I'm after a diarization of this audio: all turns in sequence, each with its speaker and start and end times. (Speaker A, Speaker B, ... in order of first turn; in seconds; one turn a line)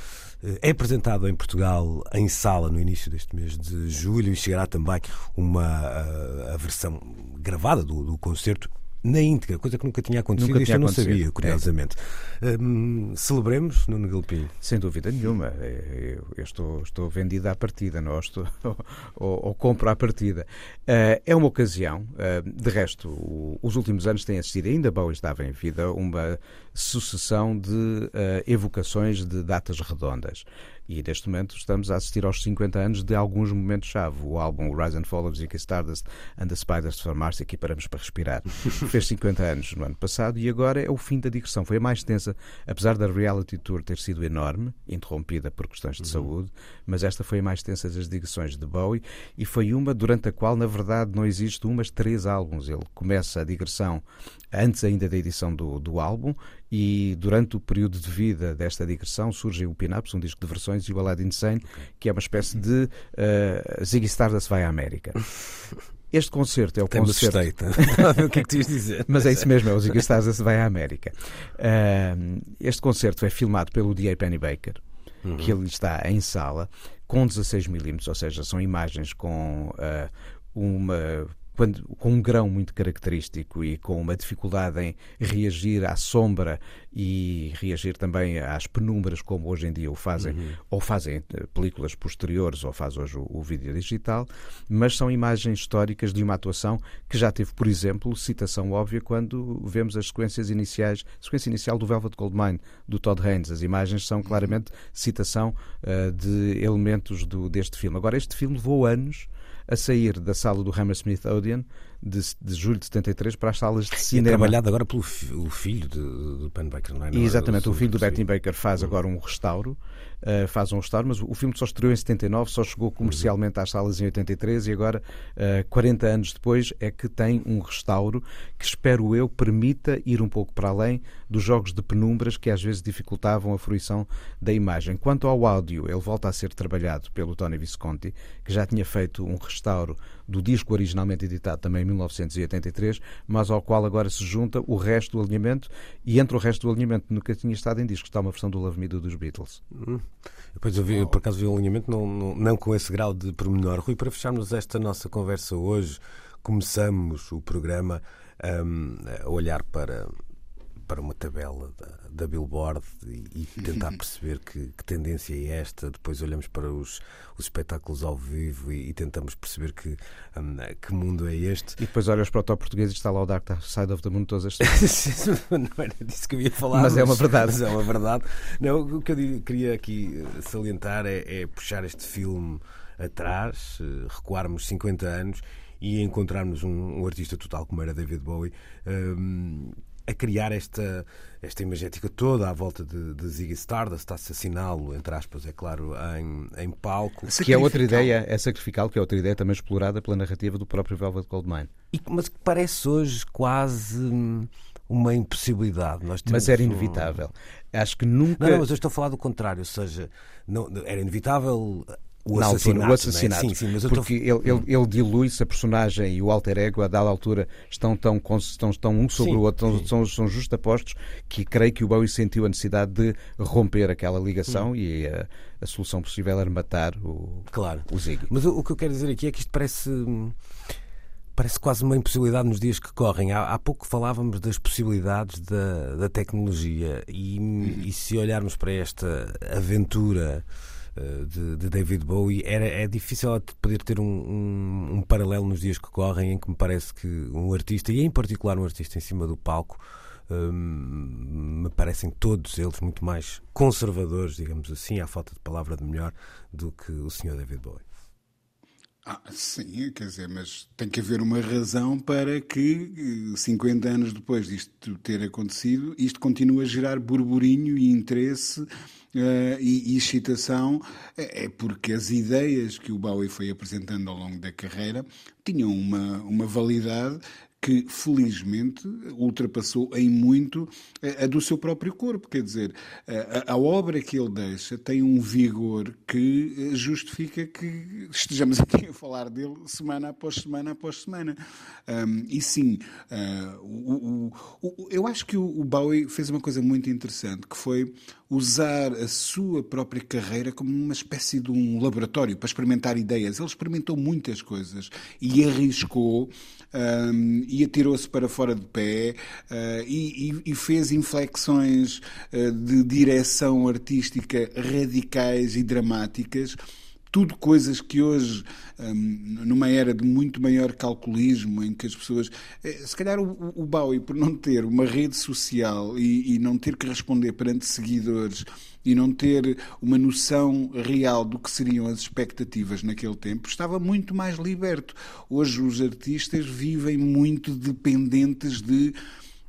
Speaker A: 0.4-14.5
Speaker B: 10.4-11.6
Speaker B: 14.6-65.2
Speaker B: 66.1-68.2
Speaker A: 66.9-69.6
Speaker B: 69.1-74.8
Speaker A: 75.2-75.5
Speaker B: 75.3-114.5
Speaker A: 90.2-90.5
Speaker A: 114.0-118.2
Speaker B: 117.1-149.6
Speaker A: 149.7-160.1
Speaker A: 160.9-171.8
Speaker B: 171.8-174.7
Speaker A: 174.6-197.4
Speaker B: 176.7-177.6
Speaker C: 197.2-198.1
Speaker B: 197.4-201.7
Speaker A: 201.9-207.2
Speaker B: 206.2-208.6
Speaker A: 208.4-214.6
Speaker B: 212.3-228.3
Speaker A: 227.5-230.3
Speaker A: 231.3-257.8
Speaker C: 259.0-316.6
Speaker C: 317.1-338.9